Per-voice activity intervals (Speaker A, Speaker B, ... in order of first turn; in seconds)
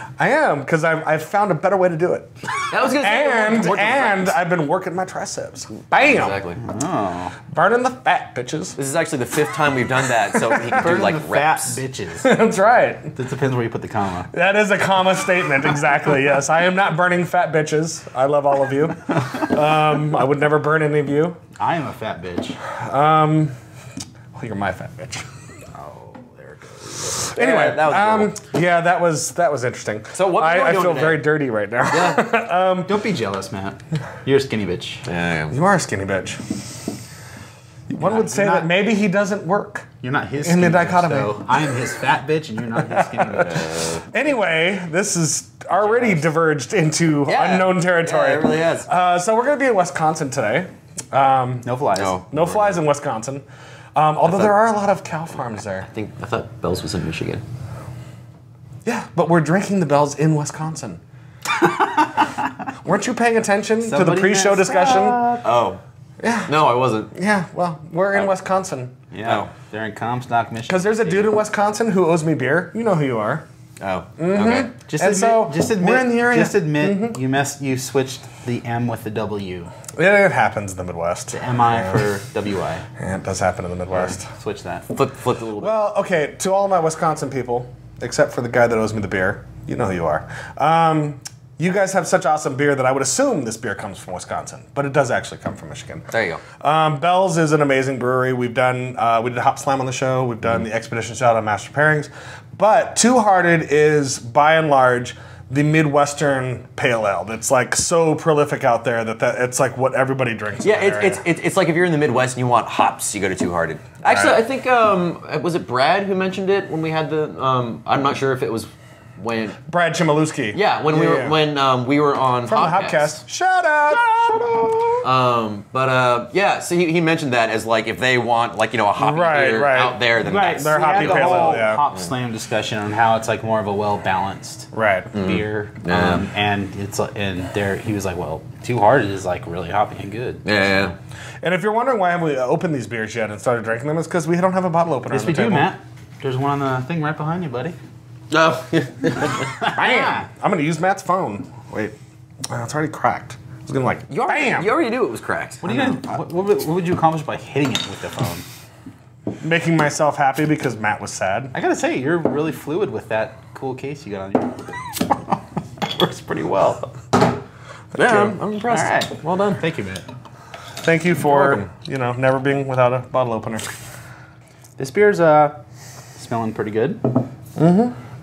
Speaker A: 0.2-2.3, 2.8-6.4, 7.5-8.8, 10.2-11.0, 12.2-13.1, 14.3-21.4, 22.7-23.6, 24.4-25.3, 27.2-32.9, 35.5-36.4, 37.9-39.9, 40.4-41.9, 42.8-51.7, 52.3-55.9, 58.8-61.0, 62.8-65.4, 66.2-69.0, 70.7-73.5, 74.2-77.2, 80.0-82.1, 83.0-84.3, 85.6-96.1, 96.6-111.2, 114.0-114.4, 119.7-121.4, 122.4-125.1, 129.0-130.0, 130.6-131.8, 134.7-135.1, 141.4-145.7, 149.7-151.9, 152.5-154.7, 159.4-161.5, 167.9-168.4, 170.8-173.7, 177.6-178.0
Speaker B: 2.7-4.4, 5.9-6.6, 8.8-11.8, 27.3-28.3, 30.1-31.2, 31.9-32.2, 35.0-35.6, 43.3-44.0, 47.3-48.9, 52.0-52.8, 54.3-54.5, 55.9-57.4, 65.4-65.8, 66.5-67.1, 73.8-74.7, 84.9-85.7, 96.1-96.4, 110.6-119.6, 120.5-123.2, 125.0-132.1, 135.1-136.3, 140.4-140.9, 148.3-149.7, 154.1-155.9, 167.9-169.6, 171.3-171.6
Speaker C: 6.6-7.4, 10.7-12.3, 13.1-14.3, 21.6-22.6, 25.7-27.2, 32.9-35.0, 38.0-38.7, 40.0-43.8, 45.7-46.3, 51.6-52.2, 61.7-62.4, 63.8-65.5, 69.1-71.3, 74.9-79.7, 81.3-82.8, 84.3-84.9, 130.2-140.8, 145.1-147.8, 149.6-150.2, 155.6-158.4, 161.5-166.9, 168.7-170.1, 174.8-175.6, 176.2-177.2